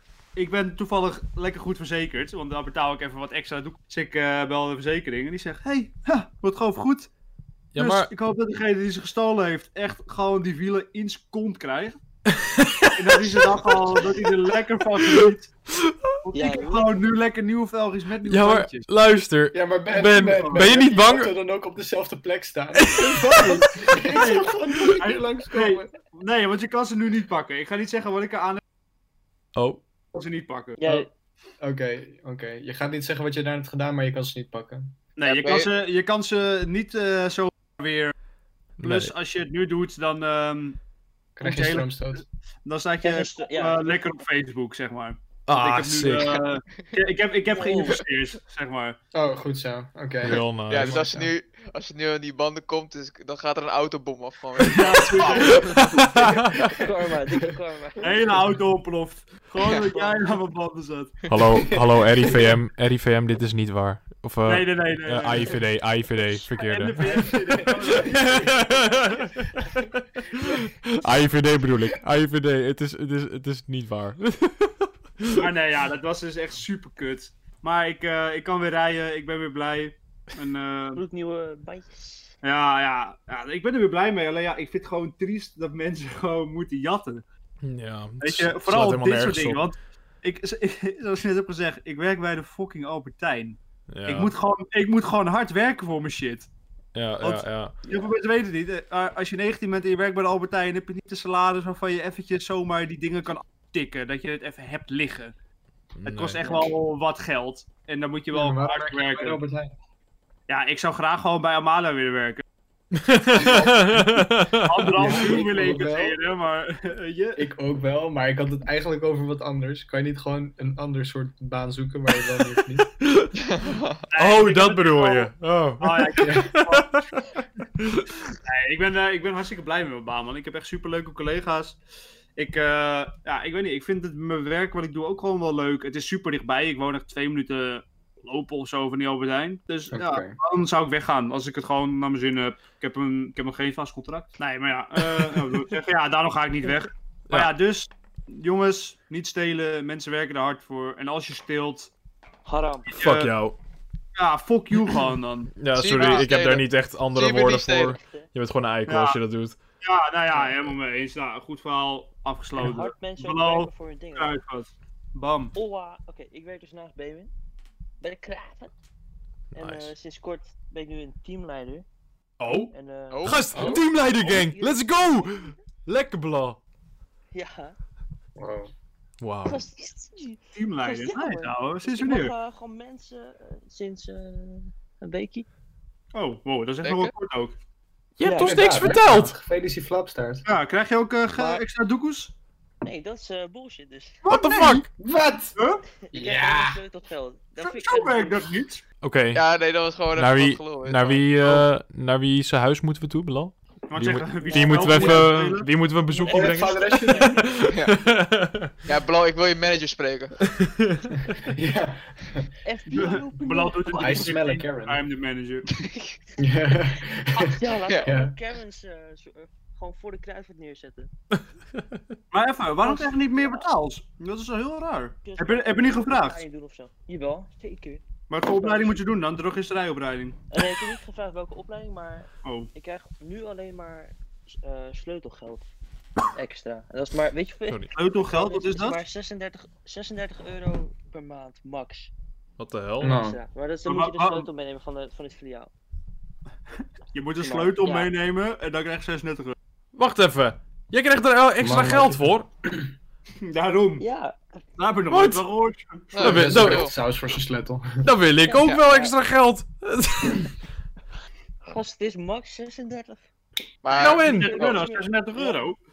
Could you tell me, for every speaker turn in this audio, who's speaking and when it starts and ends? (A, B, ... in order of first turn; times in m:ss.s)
0:00.4-0:07.1 A
0:07.7-0:08.1 B
0:07.8-0:12.0 A
0:12.3-0:13.7 B
0:12.9-0:15.5 A
0:15.0-0:16.1 B
0:16.2-0:18.9 A
0:16.3-0:17.0 C
0:18.2-0:21.3 B
0:19.5-0:25.9 D
0:20.4-0:20.7 A
0:22.8-0:23.7 B
0:24.0-0:28.6 A
0:29.6-0:29.8 B
0:30.1-0:30.9 A
0:30.8-0:31.1 C
0:31.6-0:35.0 D
0:35.2-0:38.1 A
0:35.2-0:35.7 E
0:38.8-0:39.1 B
0:38.8-0:40.8 A
0:41.4-0:42.2 D
0:41.4-0:49.0 A
0:43.0-0:44.2 C
0:45.5-0:46.4 B
0:47.5-0:48.0 C
0:49.1-0:51.3 D
0:50.2-0:51.1 B
0:50.7-0:55.6 E
0:54.6-0:56.4 A
0:56.2-0:56.6 B
0:56.8-0:58.2 C
0:58.0-1:01.2 A
0:59.7-1:00.4 C
1:01.3-1:15.4 B
1:01.7-1:02.4 D
1:04.4-1:05.6 A
1:06.6-1:07.3 C
1:06.6-1:08.7 A
1:07.0-1:09.4 D
1:15.4-1:21.0 A
1:21.0-1:22.3 C
1:22.4-1:27.2 A
1:27.6-1:29.7 B
1:28.2-1:36.5 A
1:33.9-1:34.3 B
1:36.9-1:37.7 B
1:37.2-1:45.3 A
1:46.0-1:46.4 B
1:46.0-1:49.4 A
1:48.3-1:49.8 D
1:50.5-1:52.4 A
1:52.9-1:55.2 B
1:53.3-1:54.1 A
1:53.5-1:54.0 D
1:54.6-1:57.5 A
1:55.0-1:56.2 D
1:57.4-2:02.9 D
2:03.0-2:03.3 B
2:03.4-2:04.0 E
2:04.1-2:07.0 A
2:04.2-2:07.2 B
2:06.2-2:06.5 D
2:07.8-2:08.1 B
2:08.4-2:11.8 A
2:12.4-2:31.9 A
2:19.9-2:20.4 D
2:25.0-2:25.6 B
2:32.4-2:32.9 C
2:32.9-2:33.3 A
2:33.0-2:33.6 B
2:34.2-2:35.5 A
2:35.6-2:39.6 B
2:35.7-2:38.0 E
2:38.0-2:38.3 C
2:38.9-2:39.2 A
2:39.8-2:45.6 A
2:42.6-2:44.4 C
2:45.6-2:47.3 C
2:48.0-2:48.7 C
2:49.6-2:49.9 B
2:49.6-2:51.8 C
2:52.4-2:52.7 B
2:52.5-2:55.6 C
2:53.1-2:53.7 E
2:53.2-2:56.6 B
2:53.5-2:53.8 D
2:57.3-2:57.8 C
2:58.4-2:58.7 D
2:59.2-2:59.6 B
2:59.4-3:05.5 C
3:00.6-3:02.4 A
3:06.1-3:07.6 A
3:06.8-3:07.1 E
3:08.2-3:09.4 B
3:08.2-3:09.0 C
3:08.4-3:10.5 D
3:10.4-3:12.3 A
3:12.8-3:14.2 C
3:14.2-3:14.9 A
3:14.3-3:14.9 B
3:15.0-3:15.6 D
3:15.6-3:15.8 A
3:16.1-3:18.5 C
3:16.1-3:16.8 D
3:17.6-3:18.8 A
3:19.0-3:19.4 B
3:19.3-3:21.3 E
3:20.1-3:28.7 B
3:23.9-3:25.7 A
3:24.4-3:25.3 C
3:26.1-3:27.7 C
3:26.3-3:27.5 D
3:27.7-3:28.0 E
3:28.9-3:30.5 E
3:30.5-3:31.4 B
3:31.4-3:32.5 D
3:32.6-3:34.4 C
3:32.9-3:35.7 A
3:34.0-3:35.0 D
3:35.7-3:36.2 E
3:36.4-3:38.3 D
3:37.4-3:41.1 C
3:37.8-3:38.1 E
3:42.3-3:46.4 A
3:42.8-3:43.7 C
3:45.2-3:49.0 C
3:48.3-3:50.4 A
3:50.5-3:55.6 C
3:52.4-3:52.7 A
3:56.4-4:02.1 C
3:58.0-3:59.0 A
4:02.6-4:03.2 B
4:03.0-4:03.4 D
4:03.1-4:05.7 C
4:03.8-4:04.5 A
4:07.1-4:09.6 A
4:07.4-4:08.1 C
4:10.0-4:12.5 B
4:11.6-4:12.9 D
4:13.4-4:14.1 A
4:14.0-4:14.6 C
4:14.8-4:16.2 A
4:15.1-4:15.4 B
4:16.1-4:17.0 E
4:16.2-4:16.9 B
4:16.2-4:18.0 D
4:18.0-4:20.5 B
4:18.5-4:19.2 C
4:21.6-4:23.2 C
4:23.8-4:24.8 E
4:23.9-4:24.6 B
4:23.9-4:25.8 A
4:24.2-4:25.7 C